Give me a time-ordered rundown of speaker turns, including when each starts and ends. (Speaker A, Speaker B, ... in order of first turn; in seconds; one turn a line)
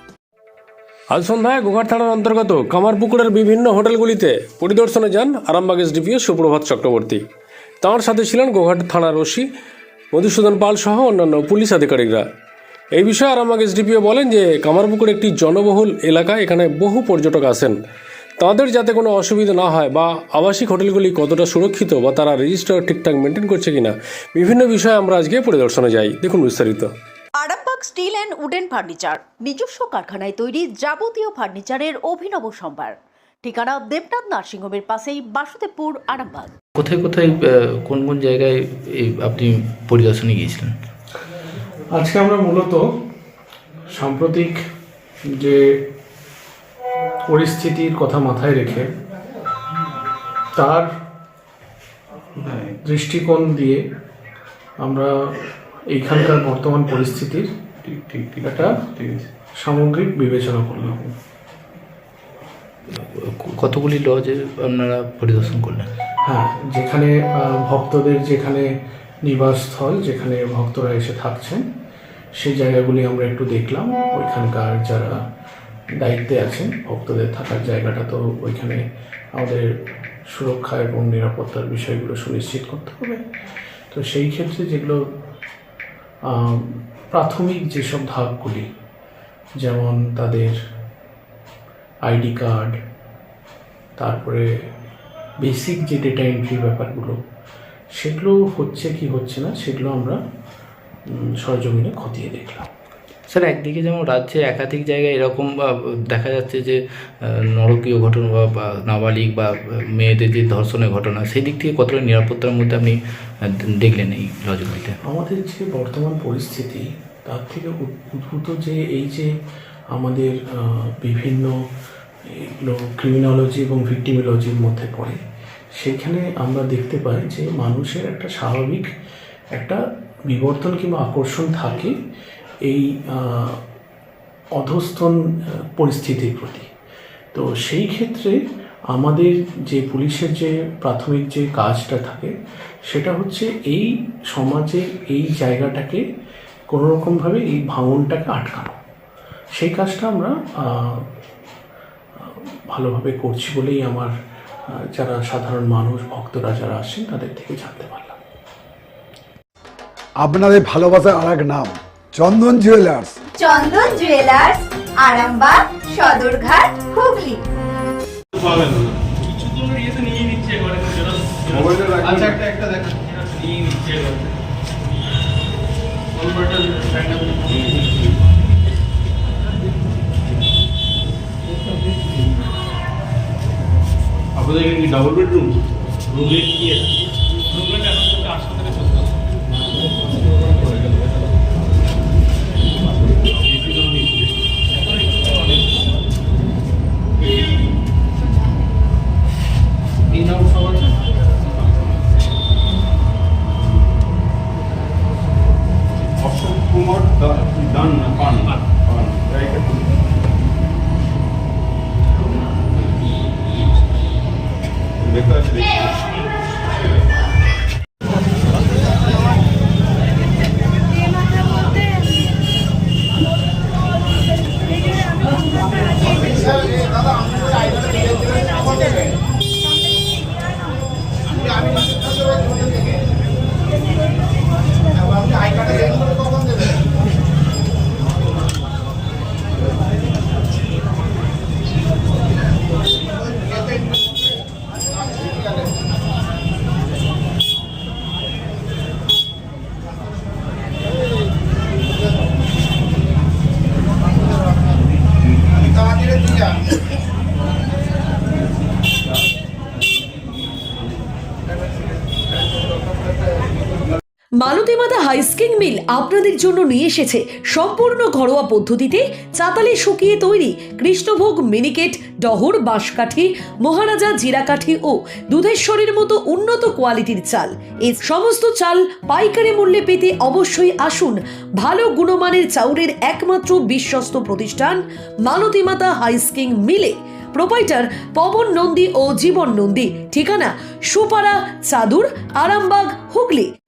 Speaker A: 1.1-7.2
Speaker A: 7.8-9.5
Speaker A: 10.1-12.3
Speaker A: 12.9-17.8
Speaker A: 18.4-26.9
Speaker B: 27.4-36.5
Speaker C: 36.8-40.7
Speaker D: 41.9-42.8
Speaker D: 43.9-44.6
Speaker D: 45.4-45.6
Speaker D: 47.3-48.9
Speaker D: 50.6-50.9
Speaker D: 52.6-53.8
Speaker D: 54.8-55.1
Speaker D: 55.9-57.5
Speaker D: 58.4-58.9
Speaker D: 59.6-61.1
Speaker C: 63.0-65.9
Speaker D: 66.2-68.7
Speaker D: 69.2-71.6
Speaker D: 72.4-75.2
Speaker D: 76.0-78.8
Speaker D: 79.3-79.7
Speaker D: 80.3-83.2
Speaker D: 83.9-85.1
Speaker D: 86.3-88.7
Speaker D: 89.6-90.5
Speaker D: 92.1-92.7
Speaker D: 94.0-94.5
Speaker D: 95.4-97.2
Speaker D: 98.0-100.2
Speaker D: 101.2-102.7
Speaker C: 103.3-115.0
Speaker D: 115.0-119.3
Speaker D: 119.9-121.5
Speaker D: 122.3-125.2
Speaker D: 125.8-128.8
Speaker D: 129.5-132.0
Speaker D: 132.7-133.6
Speaker D: 134.6-136.7
Speaker D: 137.3-138.3
Speaker D: 138.9-142.3
Speaker D: 142.9-146.0
Speaker D: 146.7-148.8
Speaker D: 149.6-151.1
Speaker D: 152.2-154.1
Speaker D: 154.9-158.2
Speaker E: 160.2-163.2
Speaker F: 163.4-167.4
Speaker G: 171.5-172.4
Speaker G: 177.5-178.1
Speaker G: 184.4-185.5
Speaker G: 206.2-209.9
Speaker G: 215.0-215.9
Speaker H: 264.4-293.5